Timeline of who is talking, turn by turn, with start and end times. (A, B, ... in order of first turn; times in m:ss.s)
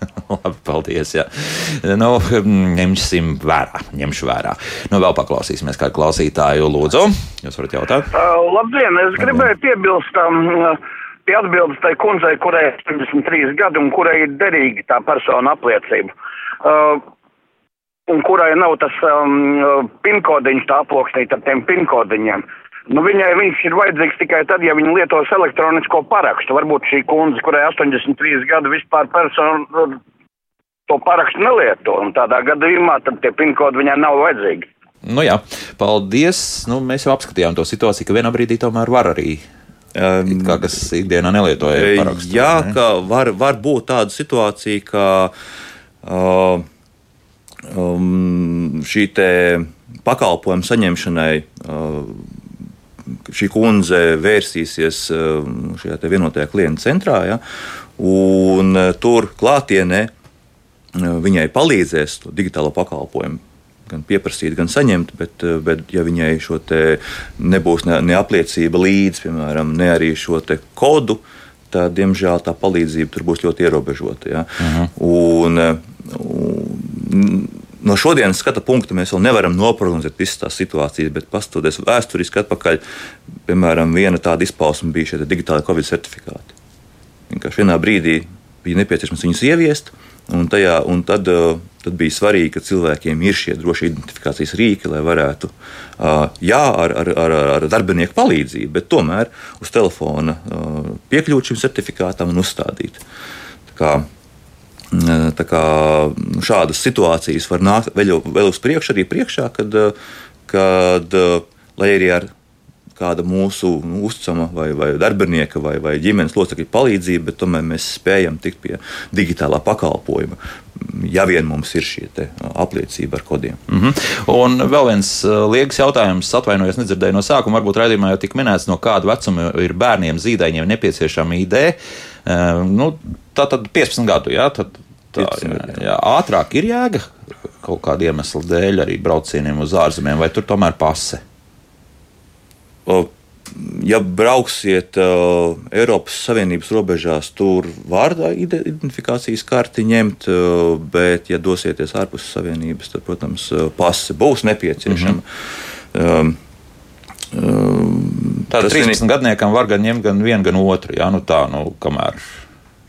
0:00.3-0:08.1 A
0:08.1-0:16.1 B
0:09.2-0:09.4 A
0:16.6-0:17.0 B
0:18.1-0:30.0 B
0:30.9-0:34.7 B
0:35.0-0:39.4 A
0:40.0-0:40.8 C
0:40.3-0:42.8 A
0:41.7-0:45.3 C
0:46.0-0:46.7 C
0:47.7-0:52.4 C
0:53.3-0:57.4 C
0:58.0-1:00.1 C
1:01.0-1:22.8 C
1:14.6-1:14.9 A
1:23.5-1:26.5 C
1:27.3-1:43.0 C
1:43.7-1:44.1 C
1:44.9-1:49.9 C
1:50.5-1:52.3 C
1:53.0-2:03.6 C
2:03.7-2:21.2 A
2:15.2-2:15.9 C
2:22.9-2:35.2 C
2:34.9-2:35.2 A
2:35.9-2:36.4 C
2:37.3-2:39.0 C
2:38.5-2:42.2 A